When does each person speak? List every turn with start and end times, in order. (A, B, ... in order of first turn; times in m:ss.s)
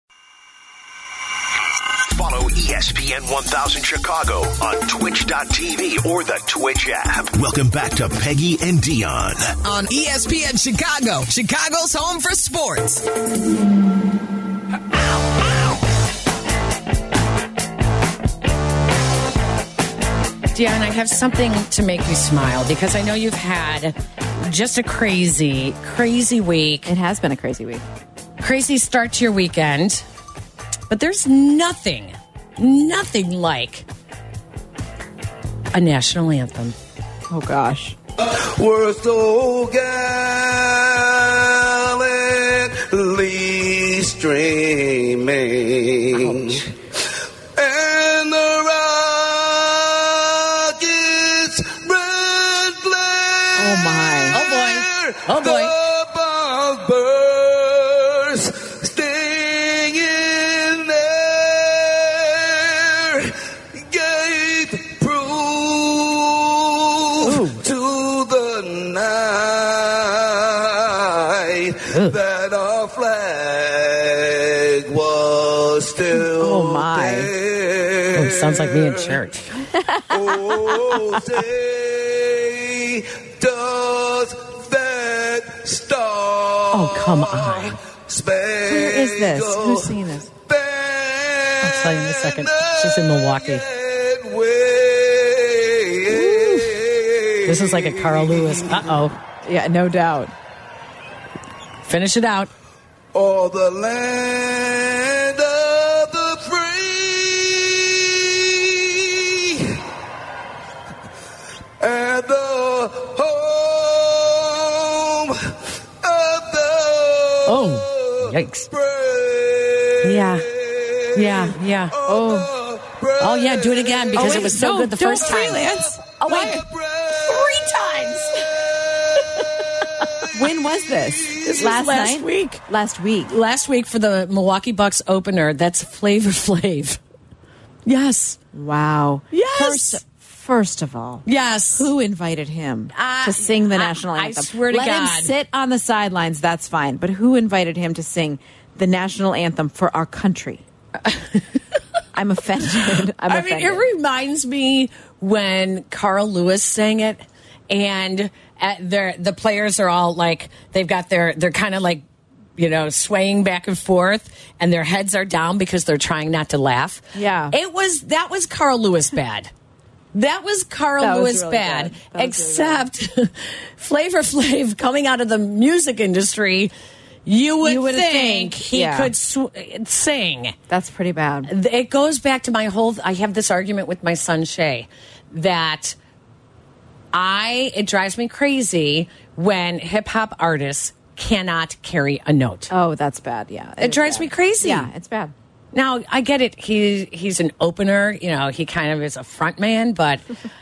0:02.1-0:09.6 A
0:09.6-0:13.0 B
0:20.5-0:26.9 C
0:26.8-0:27.8 D
0:28.4-0:30.0 C
0:30.9-0:33.8 C
0:35.7-0:36.7 C
0:37.3-0:38.0 D
0:38.2-0:46.7 E
0:46.1-0:46.6 C
0:47.6-1:19.2 E
0:53.6-0:54.4 D
0:54.3-0:55.7 C
1:07.2-1:07.6 D
1:11.9-1:12.2 C
1:16.1-1:17.3 D
1:18.1-1:19.5 C
1:19.7-1:21.4 D
1:20.1-1:30.0 E
1:26.7-1:27.8 C
1:28.6-1:30.3 D
1:30.5-1:39.0 E
1:31.6-1:33.6 C
1:36.1-1:36.7 C
1:37.4-1:39.2 C
1:39.4-1:40.3 D
1:41.8-1:42.5 C
1:43.1-1:49.8 E
1:51.8-2:04.6 E
1:57.4-1:58.7 C
2:00.0-2:00.5 C
2:01.1-2:01.9 C
2:02.0-2:02.5 D
2:03.2-2:05.6 C
2:04.2-2:06.6 D
2:05.5-2:07.5 E
2:06.2-2:06.6 C
2:07.2-2:08.5 C
2:10.3-2:13.3 D
2:11.1-2:11.6 E
2:11.4-2:12.6 C
2:13.3-2:17.0 C
2:17.8-2:18.4 C
2:18.5-2:30.6 D
2:19.3-2:20.0 C
2:21.2-2:21.9 C
2:22.9-2:25.3 C
2:31.1-2:31.4 C
2:32.1-2:33.8 D
2:33.2-2:42.0 C
2:42.6-2:49.5 C
2:47.1-2:47.6 D
2:50.1-2:56.7 C
2:51.0-2:52.9 D
2:57.2-3:00.6 C
2:57.6-2:59.1 D
3:00.7-3:01.5 D
3:01.4-3:06.0 C
3:07.1-3:12.7 C
3:12.7-3:15.3 D
3:13.8-3:14.9 C
3:15.7-3:20.2 C